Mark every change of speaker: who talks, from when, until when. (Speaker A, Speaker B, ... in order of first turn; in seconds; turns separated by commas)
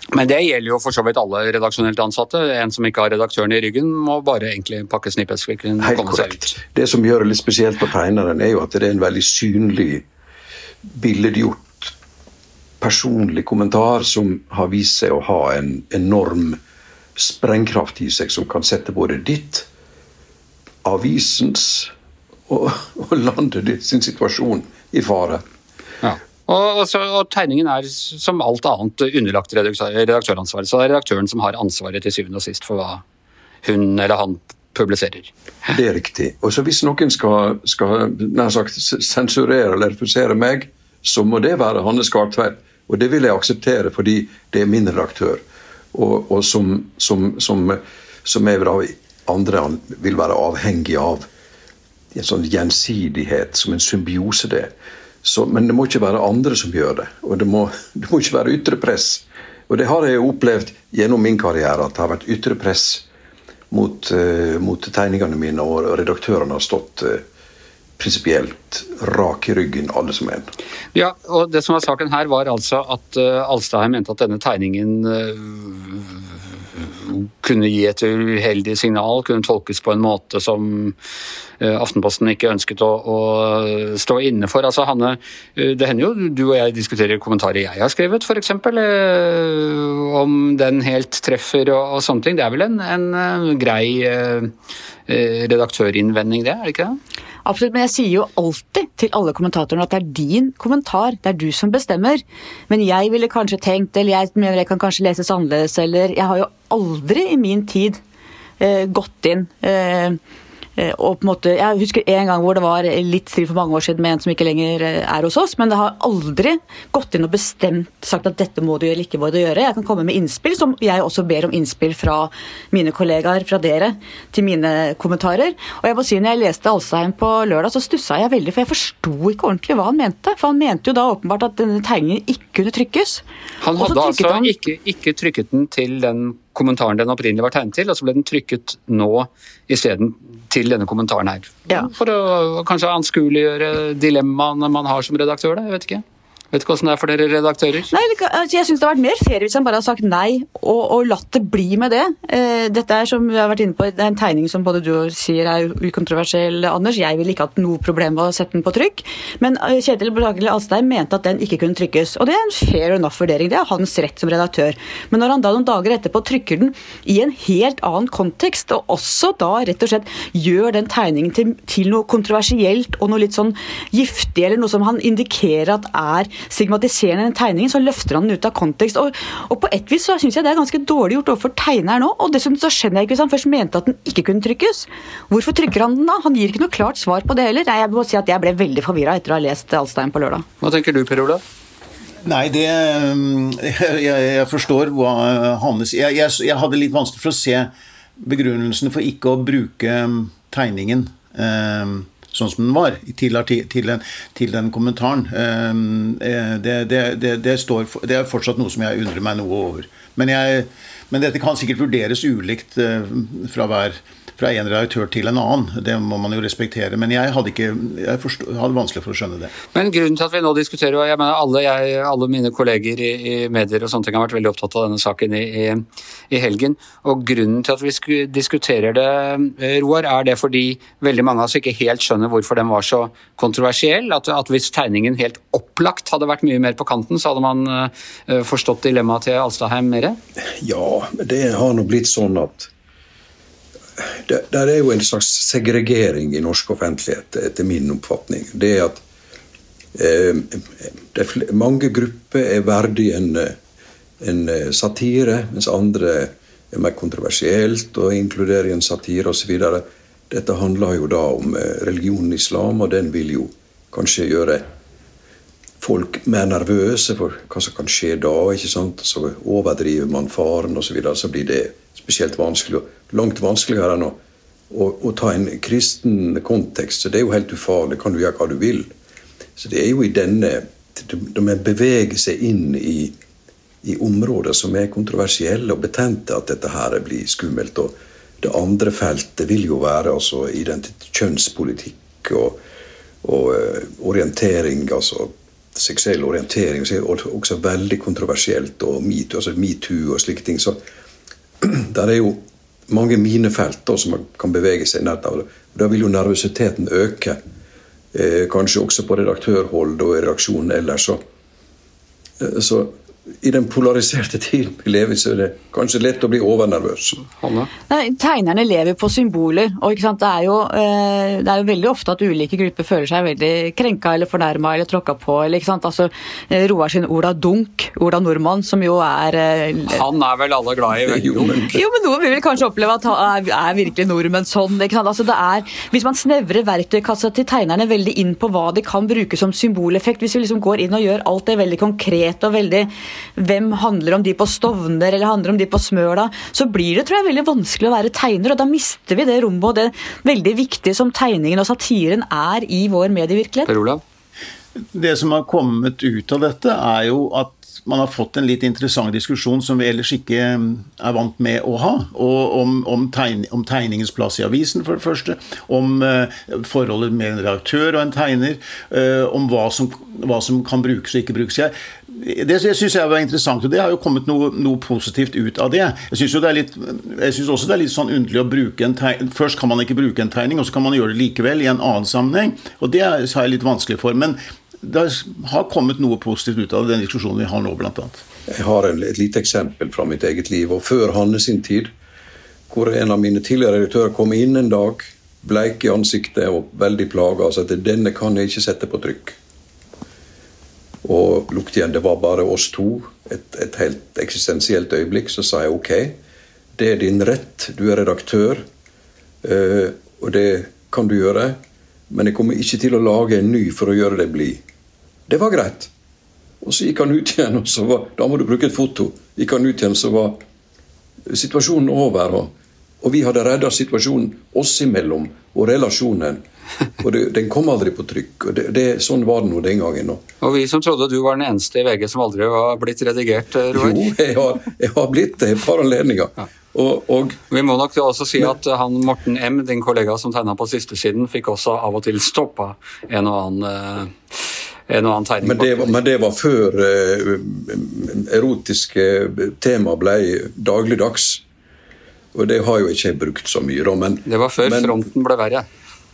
Speaker A: 0.1-6.5, Speaker B: 5.8-10.0, Speaker B: 10.9-11.9, Speaker B: 12.8-16.6, Speaker B: 17.2-19.7, Speaker B: 20.8-21.9, Speaker B: 22.5-25.4, Speaker A: 26.0-33.0, Speaker A: 33.6-35.7, Speaker B: 35.7-45.4, Speaker B: 45.9-51.3, Speaker B: 52.1-54.7, Speaker B: 55.2-63.0, Speaker B: 63.7-67.2, Speaker B: 68.0-70.5, Speaker A: 70.9-81.0, Speaker A: 81.6-94.5, Speaker A: 95.1-97.0, Speaker C: 97.4-108.0, Speaker C: 108.6-110.2, Speaker C: 110.8-133.2, Speaker A: 133.6-147.9, Speaker C: 133.7-134.5, Speaker C: 147.9-190.4, Speaker A: 190.6-191.4, Speaker D: 192.2-219.5, Speaker A: 219.7-240.2, Speaker B: 240.6-242.7, Speaker B: 244.0-249.0, Speaker B: 249.9-253.6, Speaker B: 254.2-264.6, Speaker B: 265.8-274.2, Speaker B: 274.7-278.9, Speaker B: 279.6-283.1, Speaker B: 283.8-292.6, Speaker B: 293.2-300.8, Speaker B: 301.6-307.4, Speaker B: 308.1-311.2, Speaker B: 312.4-317.3, Speaker A: 317.4-317.7, Speaker C: 317.9-330.0, Speaker A: 329.9-331.6, Speaker B: 331.1-331.8, Speaker C: 331.7-353.7, Speaker A: 353.6-354.0, Speaker D: 354.9-388.2, Speaker B: 388.5-391.9, Speaker B: 392.7-399.4, Speaker B: 401.0-406.2, Speaker B: 406.8-408.6, Speaker B: 409.4-411.6, Speaker B: 412.1-414.6, Speaker B: 415.3-415.9, Speaker B: 416.6-420.4, Speaker B: 421.3-426.4, Speaker B: 427.0-430.2, Speaker A: 430.4-434.0, Speaker B: 433.7-437.4, Speaker A: 437.5-446.0, Speaker B: 445.4-451.4, Speaker B: 452.3-454.9, Speaker A: 454.3-455.6